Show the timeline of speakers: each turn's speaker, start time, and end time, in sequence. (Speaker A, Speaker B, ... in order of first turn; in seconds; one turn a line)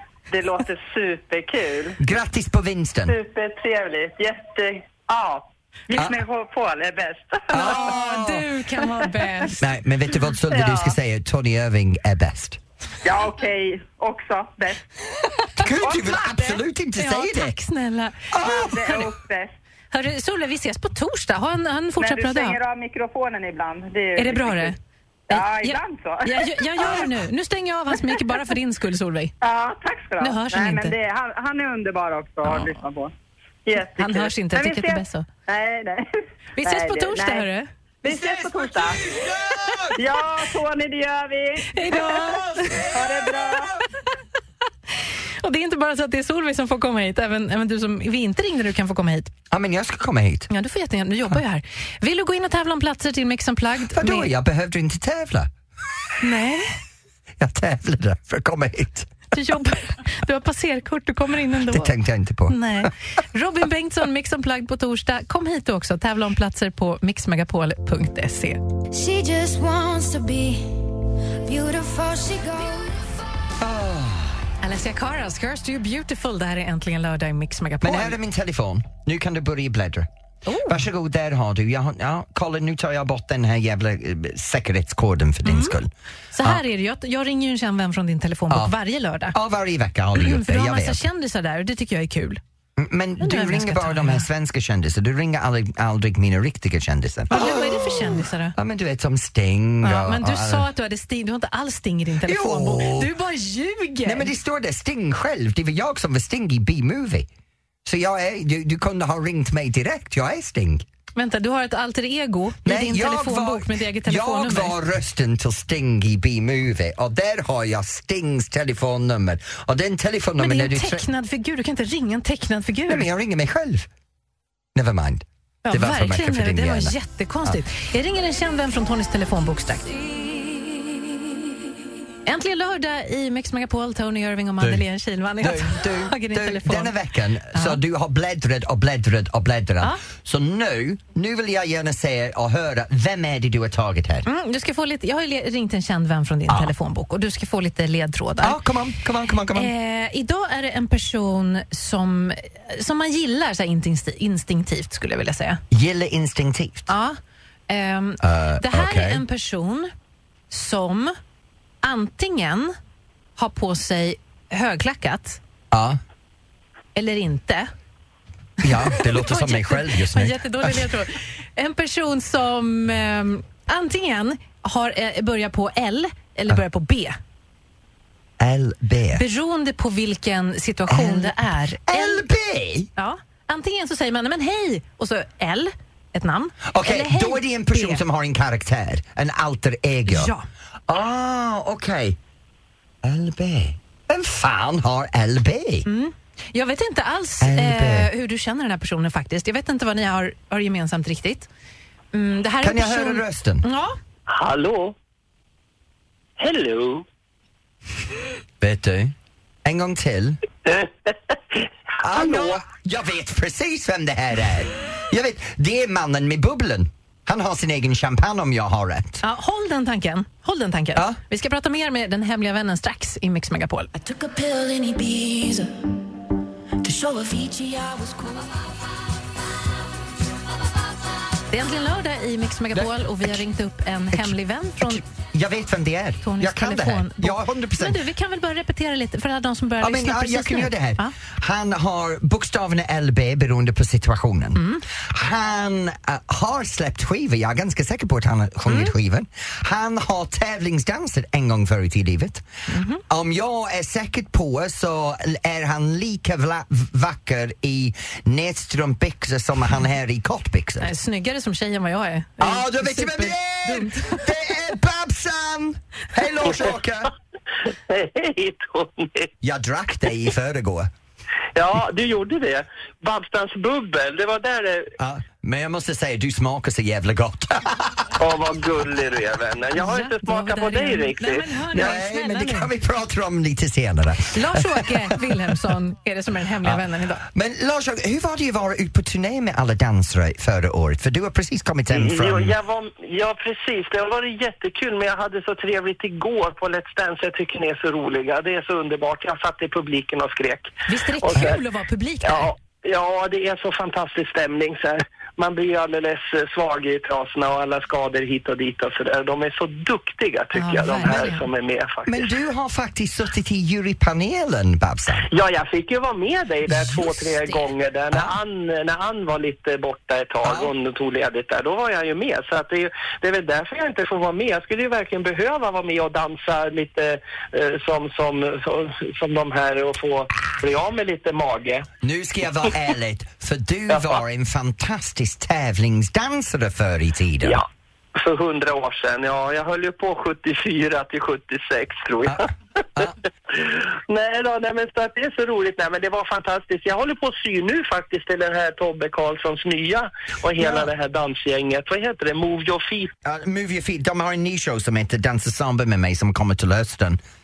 Speaker A: 0.3-2.0
Speaker B: 2.0-3.1
Speaker A: 3.1-7.9
Speaker B: 5.9-6.2
Speaker B: 7.5-8.5
Speaker C: 7.5-9.6
Speaker B: 9.6-12.6
Speaker A: 10.5-10.9
Speaker A: 13.0-14.8
Speaker B: 15.6-17.5
Speaker A: 15.6-16.6
Speaker C: 16.9-19.1
Speaker B: 18.3-18.9
Speaker A: 18.4-19.5
Speaker C: 19.9-22.6
Speaker A: 22.0-24.7
Speaker C: 24.1-24.8
Speaker A: 25.3-27.1
Speaker C: 25.3-29.3
Speaker A: 29.4-33.1
Speaker C: 30.2-30.9
Speaker C: 32.4-32.7
Speaker A: 33.6-36.1
Speaker C: 33.9-35.2
Speaker C: 36.6-37.7
Speaker A: 36.6-37.5
Speaker A: 38.0-39.0
Speaker B: 38.0-40.0
Speaker A: 40.0-41.9
Speaker C: 41.7-42.9
Speaker B: 41.9-43.7
Speaker A: 42.9-43.8
Speaker C: 45.4-49.3
Speaker B: 49.5-50.5
Speaker C: 50.5-54.3
Speaker B: 53.9-55.5
Speaker C: 56.2-56.7
Speaker B: 57.4-59.1
Speaker C: 59.3-61.9
Speaker B: 61.7-62.9
Speaker C: 62.5-68.6
Speaker D: 68.9-70.8
Speaker D: 71.4-73.0
Speaker B: 73.6-74.4
Speaker C: 74.6-78.2
Speaker B: 77.8-80.1
Speaker C: 80.5-80.8
Speaker B: 80.7-85.9
Speaker C: 85.4-85.8
Speaker C: 86.3-89.3
Speaker B: 88.5-88.8
Speaker B: 89.3-91.0
Speaker C: 90.2-92.4
Speaker B: 92.8-100.7
Speaker C: 93.2-94.3
Speaker C: 97.3-98.5
Speaker C: 99.8-104.3
Speaker B: 102.2-103.1
Speaker B: 104.0-107.3
Speaker B: 107.8-110.8
Speaker C: 111.2-114.8
Speaker B: 112.6-121.1
Speaker C: 120.4-123.1
Speaker B: 122.9-123.9
Speaker B: 124.7-127.6
Speaker C: 125.6-129.9
Speaker C: 132.2-136.9
Speaker B: 134.6-134.8
Speaker B: 135.4-144.3
Speaker C: 137.5-137.8
Speaker C: 144.2-148.6
Speaker B: 148.4-149.7
Speaker C: 149.5-155.6
Speaker B: 155.7-156.9
Speaker C: 156.9-157.2
Speaker C: 157.7-159.9
Speaker B: 158.2-159.2
Speaker C: 160.5-161.1
Speaker C: 161.8-162.7
Speaker C: 163.4-165.4
Speaker B: 165.7-166.0
Speaker C: 166.9-167.7
Speaker B: 168.6-170.9
Speaker C: 168.7-177.2
Speaker B: 178.4-179.2
Speaker C: 179.1-182.2
Speaker B: 180.9-181.3
Speaker B: 181.9-182.9
Speaker C: 182.9-188.0
Speaker B: 186.7-190.3
Speaker C: 190.1-190.4
Speaker B: 190.9-192.2
Speaker B: 193.0-195.8
Speaker C: 195.8-201.5
Speaker B: 197.4-198.1
Speaker C: 202.1-203.9
Speaker B: 202.6-203.6
Speaker E: 204.3-204.9
Speaker E: 206.4-207.0
Speaker B: 208.6-209.1
Speaker B: 209.6-210.4
Speaker E: 210.7-212.6
Speaker B: 212.0-219.2
Speaker C: 219.2-223.9
Speaker F: 223.9-225.8
Speaker F: 226.8-228.6
Speaker C: 231.5-235.0
Speaker B: 232.7-233.4
Speaker B: 234.1-238.0
Speaker C: 236.2-241.1
Speaker B: 239.8-252.4
Speaker C: 244.6-244.8
Speaker C: 248.6-248.9
Speaker C: 252.7-253.0
Speaker B: 253.1-260.9
Speaker C: 260.8-264.3
Speaker B: 262.4-267.1
Speaker E: 267.9-269.3
Speaker B: 269.4-270.9
Speaker E: 271.6-274.9
Speaker B: 275.0-278.2
Speaker E: 278.2-281.5
Speaker C: 279.7-282.7
Speaker B: 281.7-285.7
Speaker C: 284.3-287.2
Speaker B: 286.6-292.5
Speaker E: 291.9-301.6
Speaker C: 300.9-302.5
Speaker E: 302.2-312.3
Speaker C: 310.5-311.5
Speaker B: 312.0-315.3
Speaker E: 315.2-331.9
Speaker C: 316.8-317.6
Speaker B: 320.4-320.7
Speaker B: 332.0-337.6
Speaker E: 337.4-342.5
Speaker B: 342.2-343.2
Speaker E: 343.5-353.1
Speaker B: 350.6-350.9
Speaker B: 353.2-357.2